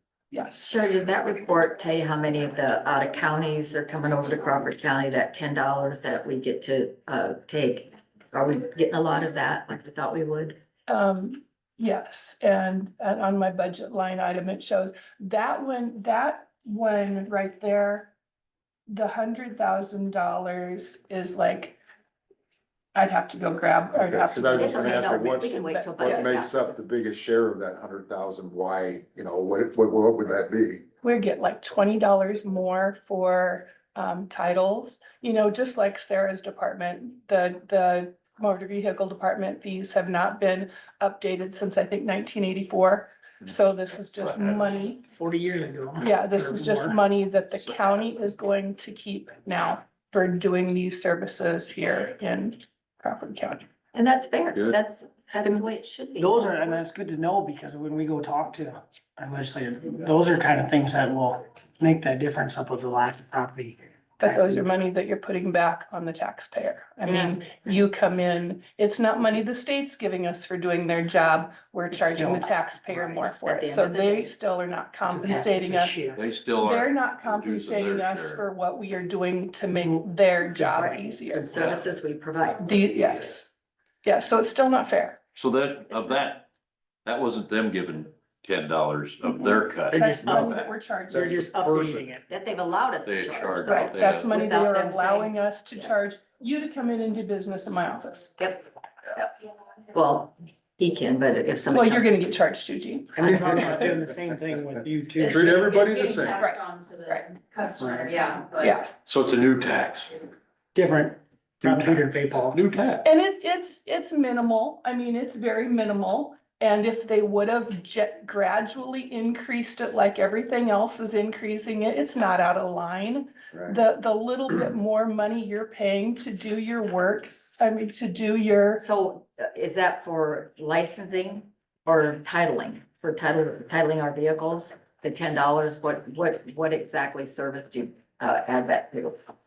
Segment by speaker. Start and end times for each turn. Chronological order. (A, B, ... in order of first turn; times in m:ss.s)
0:00.3-0:00.8 A
0:00.6-0:10.6 B
0:10.9-0:18.1 A
0:18.9-0:21.8 A
0:22.9-0:26.4 A
0:23.9-0:30.8 C
0:24.6-0:26.6 B
0:31.0-0:45.0 A
0:44.0-0:44.4 D
0:44.5-0:47.0 E
0:46.0-0:53.6 A
0:53.9-0:56.7 B
0:55.4-1:04.6 E
1:04.2-1:21.5 A
1:07.0-1:07.3 B
1:11.9-1:13.0 E
1:13.1-1:14.3 B
1:15.0-1:16.2 E
1:16.1-1:18.4 D
1:20.7-1:22.8 B
1:21.6-1:21.9 D
1:22.6-1:23.5 A
1:24.0-1:25.2 A
1:25.3-1:26.5 D
1:27.0-1:30.7 D
1:29.9-1:30.4 E
1:29.9-1:31.4 A
1:31.1-1:32.1 C
1:31.1-1:32.2 E
1:32.3-1:35.9 B
1:33.0-1:34.4 D
1:33.6-1:38.4 A
1:38.4-1:39.3 B
1:39.9-1:42.1 B
1:41.7-1:43.6 A
1:43.2-1:45.7 E
1:43.2-1:43.6 B
1:45.2-1:48.8 F
1:45.2-1:46.4 C
1:46.4-1:47.2 A
1:47.8-1:48.1 E
1:48.6-1:48.9 A
1:49.0-1:50.2 D
1:50.7-1:52.6 E
1:51.6-1:53.0 D
1:53.0-2:08.8 A
2:08.8-2:19.2 B